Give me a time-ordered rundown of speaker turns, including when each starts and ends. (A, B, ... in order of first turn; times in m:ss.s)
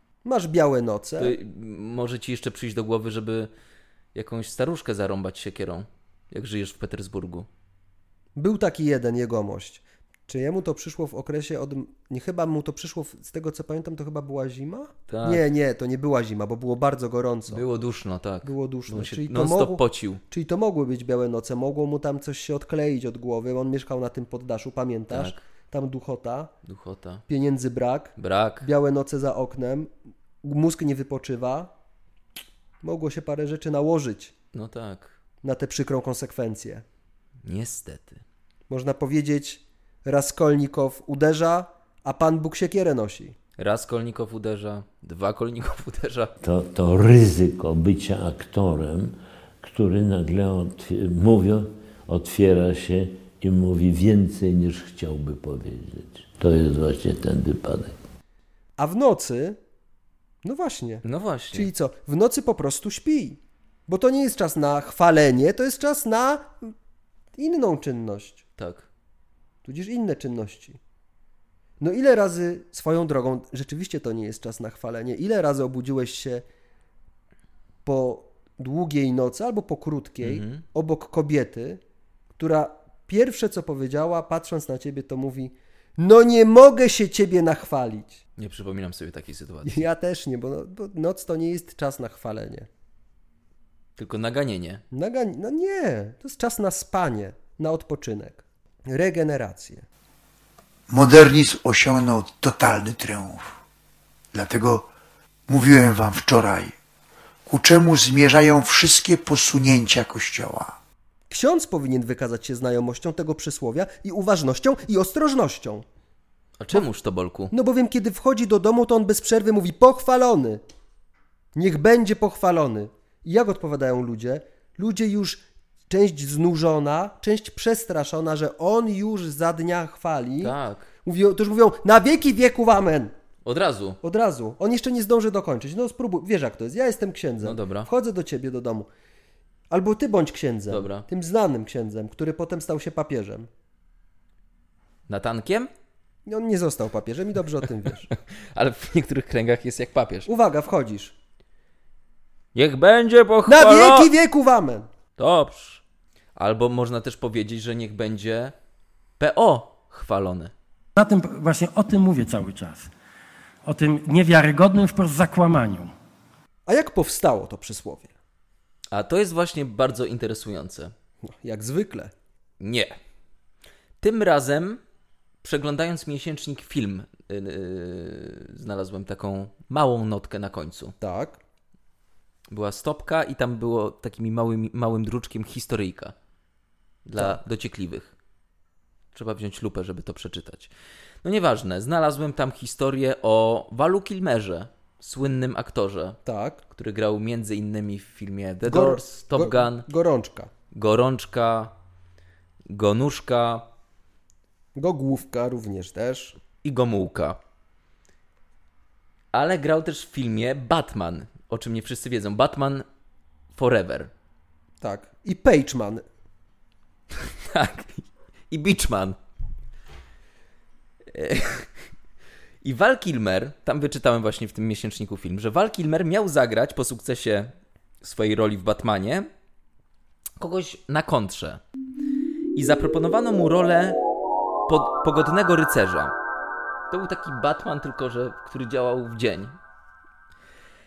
0:00.2-0:01.4 A
0:01.2-0:03.5 B
0:04.1-0:07.5 B
0:08.4-0:17.7 A
0:15.1-0:15.5 B
0:17.5-0:20.2 B
0:18.4-0:26.5 A
0:25.1-0:25.4 B
0:26.6-0:27.2 B
0:27.3-0:29.9 A
0:28.2-0:28.7 B
0:30.4-0:31.7 A
0:32.8-0:34.3 A
0:34.5-0:35.2 B
0:35.4-0:36.8 A
0:37.4-0:38.2 B
0:38.7-0:43.4 A
0:43.6-0:46.3 B
0:46.4-0:58.0 C
0:58.8-0:59.6 A
1:00.4-1:06.7 A
1:01.0-1:01.7 B
1:07.4-1:08.4 A
1:08.6-1:08.9 B
1:09.6-1:10.8 A
1:11.8-1:16.4 A
1:17.8-1:21.8 A
1:20.2-1:20.6 B
1:22.4-1:28.2 A
1:28.4-1:29.8 B
1:29.6-1:32.7 A
1:34.0-1:34.8 B
1:34.9-1:39.9 A
1:40.9-1:43.6 D
1:44.3-1:44.9 D
1:45.5-1:46.7 D
1:47.5-1:50.8 D
1:51.3-1:55.9 A
1:56.6-1:57.5 B
1:57.5-2:00.6 A
2:01.6-2:13.1 A
2:10.4-2:10.9 B
2:13.4-2:14.0 B
2:14.0-2:18.9 A
2:17.4-2:17.9 B
2:19.7-2:23.5 A
2:20.7-2:21.1 B
2:25.1-2:25.7 B
2:26.3-2:28.1 A
2:28.1-2:30.3 B
2:30.3-2:31.1 A
2:32.5-2:34.1 B
2:33.5-2:34.9 A
2:35.2-2:35.8 B
2:36.4-2:38.5 B
2:39.2-2:40.5 B
2:41.0-2:42.9 E
2:43.7-2:45.9 E
2:46.7-2:48.1 A
2:48.9-2:50.9 B
2:51.3-2:52.1 A
2:52.6-2:52.9 B
2:54.0-2:54.8 B
2:55.4-3:00.9 B
3:01.0-3:01.4 A
3:02.5-3:06.1 B
3:07.0-3:08.1 B
3:07.2-3:07.4 A
3:09.1-3:10.7 B
3:11.2-3:16.2 B
3:16.3-3:16.6 A
3:16.7-3:19.9 B
3:18.6-3:20.5 A
3:20.7-3:21.7 B
3:22.7-3:23.7 B
3:24.8-3:26.4 A
3:26.6-3:27.4 B
3:29.3-3:32.8 B
3:33.5-3:34.1 B
3:34.8-3:36.0 A
3:37.2-3:39.2 B
3:41.1-3:41.7 B
3:42.6-3:49.3 B
3:50.4-3:51.6 B
3:52.6-3:54.0 B
3:54.7-3:56.2 B
3:56.9-3:59.6 B